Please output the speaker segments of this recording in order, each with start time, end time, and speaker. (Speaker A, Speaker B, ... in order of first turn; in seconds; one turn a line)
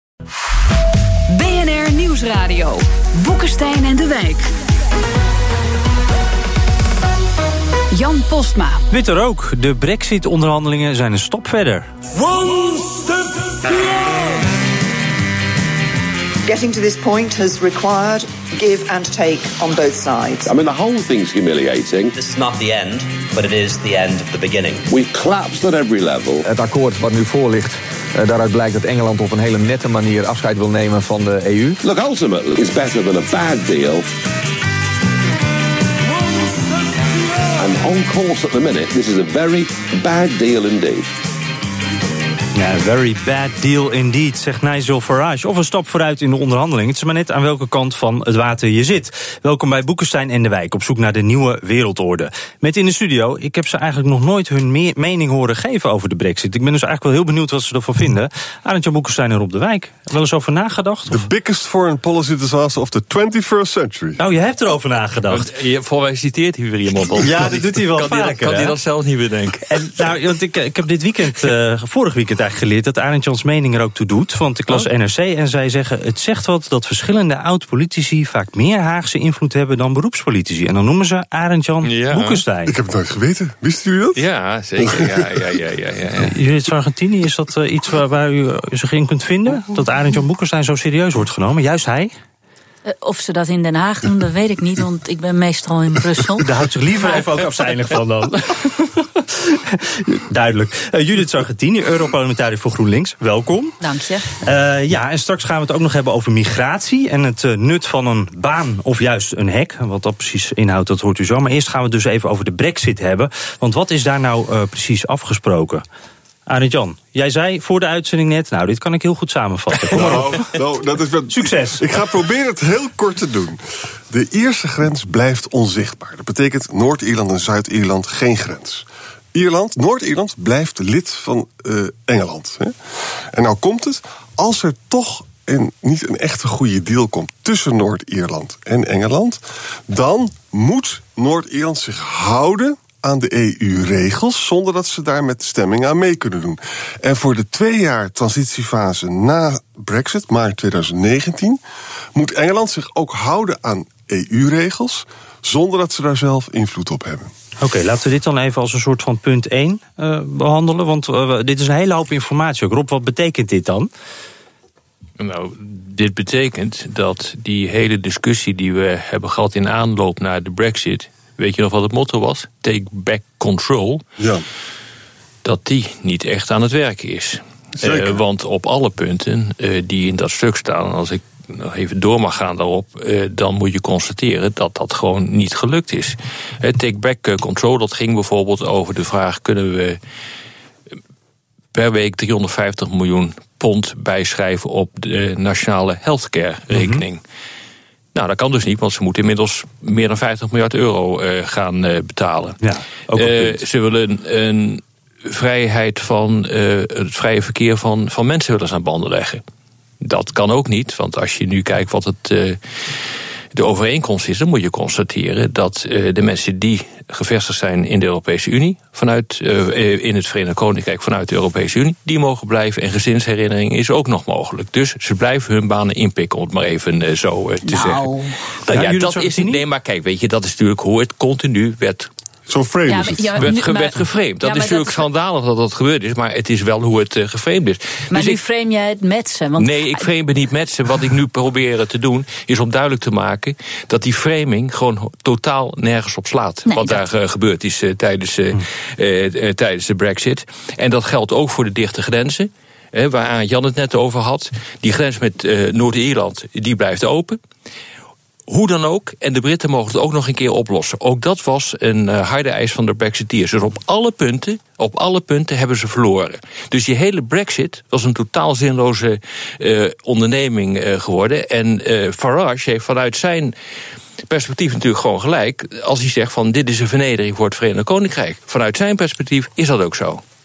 Speaker A: 1.3-4.5
Speaker A: 7.9-8.8
Speaker B: 8.9-11.9
Speaker C: 16.4-20.5
Speaker D: 20.4-22.1
Speaker E: 22.1-24.8
Speaker D: 24.9-26.4
Speaker F: 26.4-31.8
Speaker D: 31.8-34.1
Speaker D: 37.5-41.1
Speaker B: 42.5-61.2
Speaker G: 61.1-64.2
Speaker B: 64.2-65.5
Speaker H: 65.3-69.7
Speaker B: 67.2-68.7
Speaker B: 69.7-82.7
Speaker H: 81.8-82.4
Speaker G: 82.7-84.2
Speaker H: 84.2-86.3
Speaker G: 84.8-85.4
Speaker B: 86.2-92.1
Speaker I: 92.8-96.5
Speaker B: 96.4-103.8
Speaker I: 103.8-104.2
Speaker B: 104.3-115.8
Speaker B: 116.5-120.5
Speaker G: 119.9-123.6
Speaker B: 121.3-121.8
Speaker G: 124.1-132.8
Speaker G: 133.3-151.6
Speaker G: 152.1-157.3
Speaker B: 157.6-163.9
Speaker H: 165.2-174.0
Speaker G: 174.2-174.4
Speaker H: 175.4-190.0
Speaker G: 177.8-178.2
Speaker H: 191.7-197.2
Speaker B: 196.7-197.0
Speaker H: 198.1-202.6
Speaker B: 202.6-203.6
Speaker H: 203.1-209.4
Speaker H: 210.0-212.6
Speaker H: 213.5-228.1
Speaker I: 227.6-228.3
Speaker H: 228.6-232.1
Speaker B: 228.7-229.6
Speaker G: 232.5-233.4
Speaker I: 232.9-235.0
Speaker H: 233.4-238.4
Speaker I: 238.1-240.1
Speaker H: 239.6-257.4
Speaker I: 246.7-247.0
Speaker H: 258.5-273.5
Speaker H: 274.3-280.2